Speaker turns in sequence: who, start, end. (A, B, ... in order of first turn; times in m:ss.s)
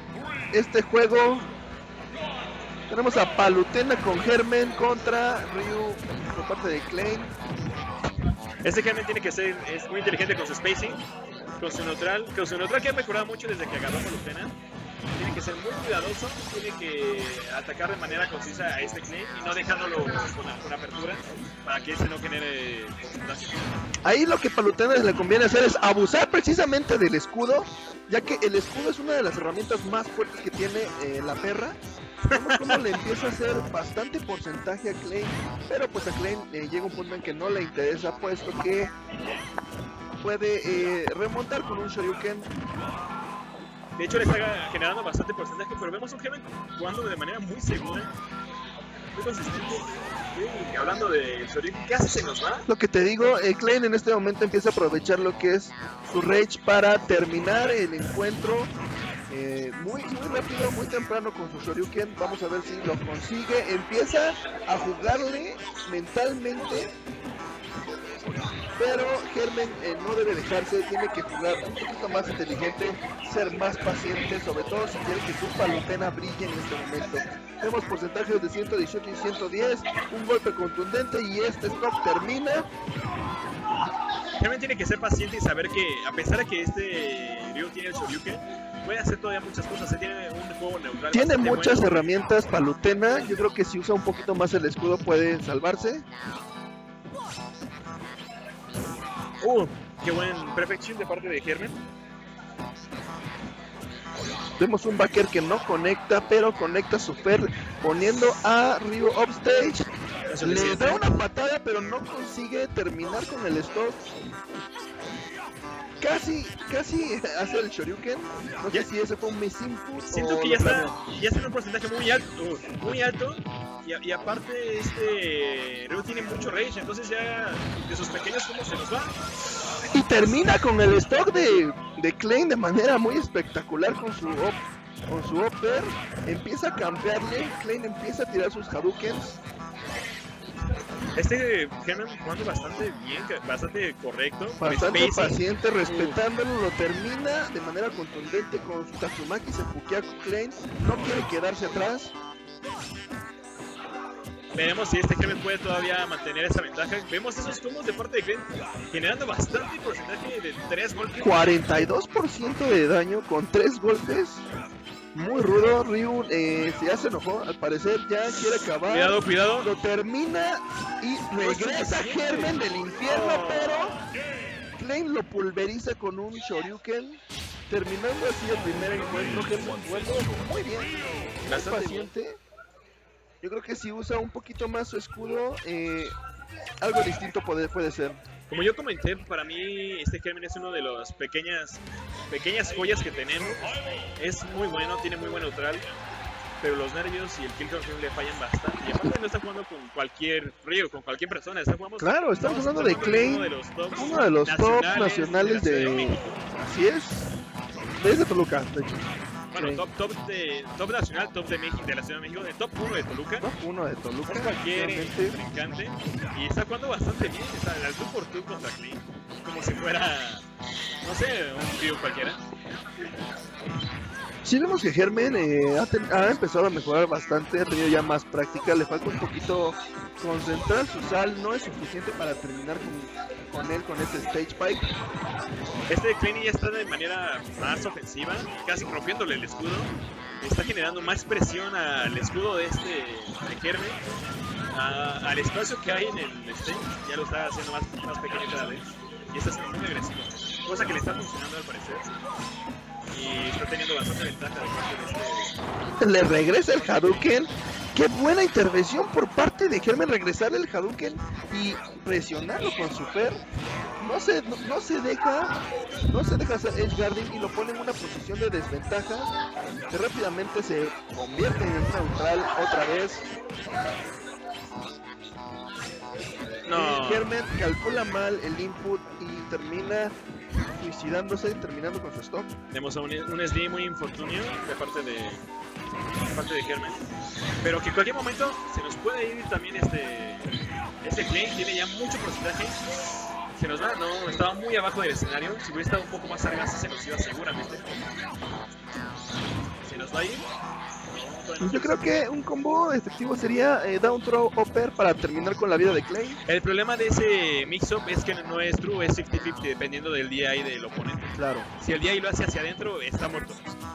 0:00.5-0:01.5 A
0:02.9-0:07.3 A
0:08.6-0:11.0 B
0:11.6-0:14.5 B
0:15.2-0:23.6 B
0:24.0-0:31.8 A
0:32.3-0:33.0 B
0:32.3-0:38.9 A
0:40.2-0:42.5 A
0:44.0-0:48.1 B
0:49.2-0:52.6 B
0:52.7-0:58.7 A
0:59.3-1:06.9 A
1:08.8-1:22.7 A
1:24.4-1:31.9 B
1:31.1-1:36.0 A
1:39.4-1:41.8 B
1:44.6-1:49.8 A
1:50.3-1:51.2 B
1:50.4-1:54.0 A
1:56.0-2:01.0 A
2:00.1-2:09.1 B
2:09.9-2:19.4 A
2:21.2-2:26.2 B
2:24.6-2:32.1 A
2:34.6-2:41.5 B
2:41.2-2:44.4 A
2:45.2-2:54.0 A
2:48.8-2:49.7 B
2:51.4-2:53.9 B
2:54.8-3:02.4 A
3:01.5-3:02.1 B
3:03.4-3:06.2 A
3:06.8-3:08.2 A
3:08.5-3:15.9 B
3:16.6-3:26.4 B
3:22.0-3:27.3 A
3:28.0-3:29.0 A
3:29.5-3:33.5 B
3:29.6-3:29.8 A
3:33.4-3:35.4 A
3:34.3-3:40.4 B
3:41.0-3:42.4 B
3:44.4-3:54.9 A
3:55.9-3:59.9 B
4:00.4-4:04.0 B
4:04.7-4:12.1 B
4:13.1-4:15.5 B
4:16.0-4:23.4 A
4:24.0-4:25.6 A
4:26.1-4:29.3 A
4:29.9-4:33.3 A
4:36.7-4:37.3 B
4:36.8-4:40.2 A
4:40.8-4:42.5 A
4:42.7-4:45.4 B
4:46.3-4:47.0 B
4:47.6-4:52.8 B
4:53.6-4:57.9 B
4:59.8-5:00.5 B
5:01.1-5:02.1 B
5:01.6-5:06.4 A
5:06.5-5:13.7 B
5:11.4-5:11.7 A